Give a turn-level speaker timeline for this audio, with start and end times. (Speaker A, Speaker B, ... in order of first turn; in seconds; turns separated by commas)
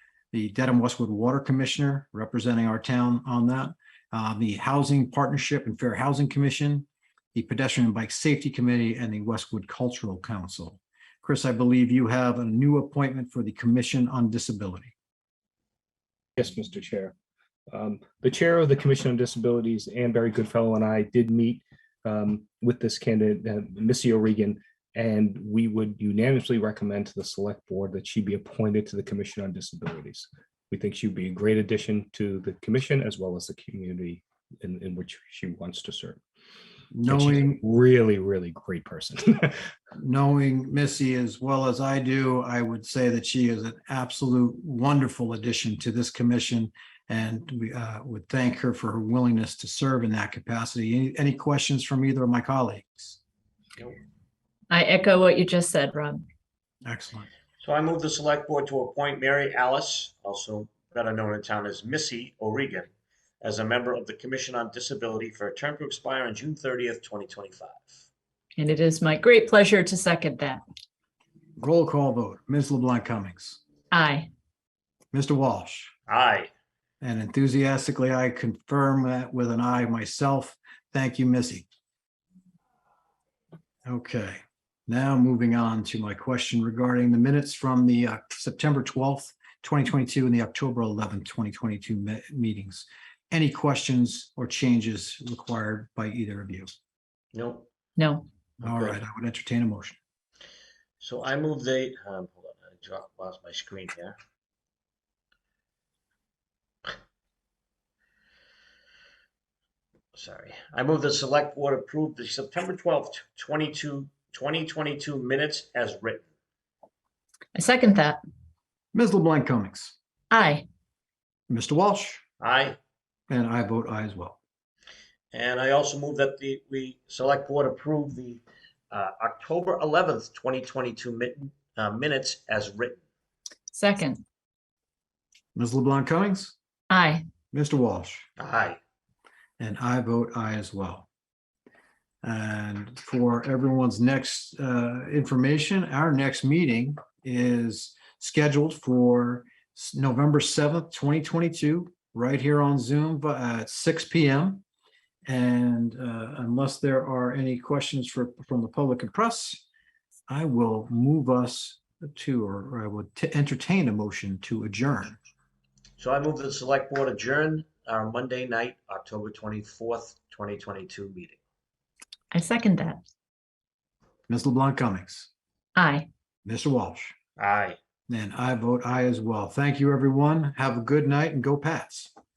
Speaker A: 0.3-14.9, Speaker B: 16.4-17.1, Speaker B: 17.7-36.2, Speaker A: 36.9-37.6, Speaker B: 37.1-39.6, Speaker A: 40.0-53.2, Speaker C: 54.7-56.2, Speaker A: 56.9-57.3, Speaker D: 57.6-67.9, Speaker C: 68.6-70.6, Speaker A: 71.6-73.6, Speaker C: 73.9-74.3, Speaker A: 75.1-75.9, Speaker D: 76.1-76.5, Speaker A: 77.0-81.7, Speaker A: 83.8-96.7, Speaker D: 97.3-97.7, Speaker C: 98.0-98.2, Speaker D: 98.6-99.0, Speaker A: 98.6-100.0, Speaker D: 101.0-104.1, Speaker D: 110.2-116.3, Speaker C: 117.5-118.2, Speaker A: 118.9-120.0, Speaker C: 120.3-120.6, Speaker A: 121.5-122.2, Speaker D: 122.4-122.8, Speaker A: 123.3-124.4, Speaker D: 125.3-133.0, Speaker C: 133.7-134.2, Speaker A: 135.5-136.5, Speaker C: 136.9-137.2, Speaker A: 137.5-138.2, Speaker D: 138.4-138.8, Speaker A: 139.6-141.1, Speaker A: 142.2-154.6, Speaker A: 155.3-159.6, Speaker A: 160.3-165.2, Speaker D: 166.0-171.4, Speaker C: 172.3-173.0, Speaker A: 174.3-175.3, Speaker C: 175.8-176.1, Speaker A: 176.4-177.1, Speaker D: 177.4-177.8, Speaker A: 178.1-182.1